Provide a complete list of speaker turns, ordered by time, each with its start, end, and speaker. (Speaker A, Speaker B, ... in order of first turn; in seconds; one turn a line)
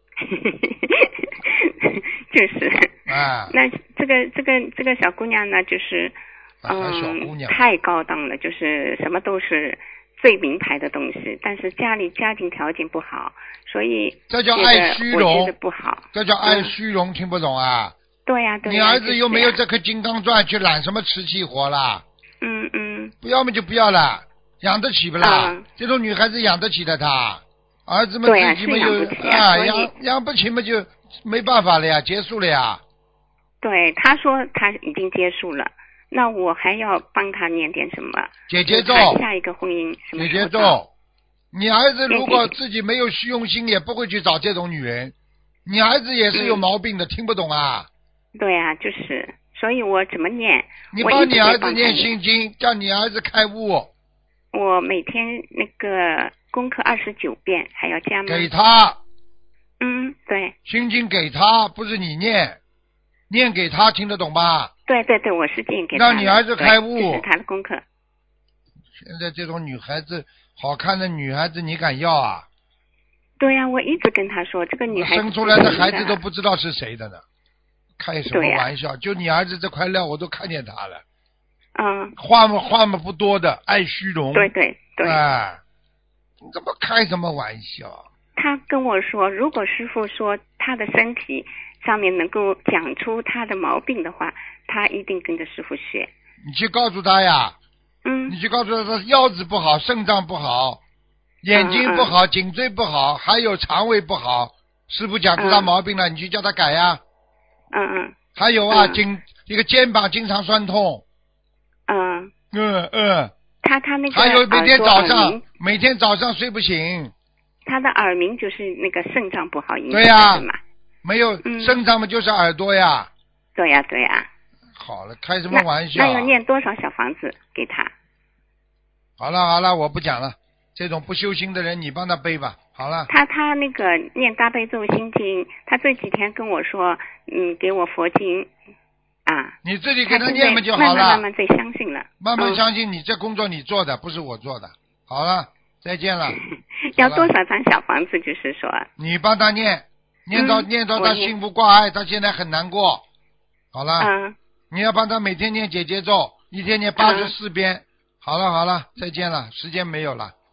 Speaker A: 0.2-2.9
Speaker B: 3.1-3.5
Speaker A: 3.5-16.8
Speaker B: 6.6-7.6
Speaker B: 14.3-15.6
Speaker B: 16.1-17.9
Speaker A: 18.3-19.6
Speaker B: 18.6-22.0
Speaker A: 22.4-23.1
Speaker B: 23.2-32.8
Speaker A: 25.2-25.6
Speaker A: 28.2-29.9
Speaker A: 33.6-40.8
Speaker B: 38.5-39.2
Speaker B: 40.1-40.9
Speaker B: 41.5-45.1
Speaker A: 42.1-42.5
Speaker B: 45.7-47.9
Speaker A: 46.3-46.6
Speaker A: 48.4-52.1
Speaker B: 50.9-53.9
Speaker A: 54.5-58.5
Speaker B: 58.3-59.0
Speaker A: 59.8-60.5
Speaker B: 60.7-62.6
Speaker B: 63.3-64.7
Speaker A: 64.9-67.8
Speaker B: 65.9-67.2
Speaker B: 69.0-72.5
Speaker A: 73.4-76.2
Speaker B: 74.9-77.2
Speaker B: 78.0-81.0
Speaker A: 78.3-78.7
Speaker A: 81.8-82.1
Speaker B: 82.2-85.6
Speaker A: 84.3-85.2
Speaker B: 86.4-88.0
Speaker A: 88.4-96.1
Speaker B: 96.4-97.6
Speaker A: 98.0-98.4
Speaker B: 98.3-100.8
Speaker B: 101.4-107.0
Speaker A: 101.5-102.2
Speaker A: 105.4-105.7
Speaker A: 107.7-108.2
Speaker B: 108.4-111.0
Speaker A: 108.7-109.0
Speaker A: 111.9-112.3
Speaker B: 112.5-113.3
Speaker A: 113.6-115.4
Speaker B: 114.1-117.1
Speaker A: 117.7-120.6
Speaker B: 119.9-120.5
Speaker B: 121.0-123.1
Speaker A: 121.4-121.8
Speaker A: 123.6-124.3
Speaker B: 124.8-126.4
Speaker A: 125.5-127.9
Speaker B: 129.2-133.1
Speaker A: 133.1-138.5
Speaker A: 139.3-139.6
Speaker B: 139.7-141.2
Speaker A: 140.1-142.6
Speaker B: 142.2-146.4
Speaker A: 146.3-148.9
Speaker B: 146.9-147.3
Speaker B: 149.0-153.1
Speaker A: 150.3-151.3
Speaker B: 153.7-154.1
Speaker A: 154.0-154.4
Speaker B: 154.7-160.3
Speaker A: 157.0-157.3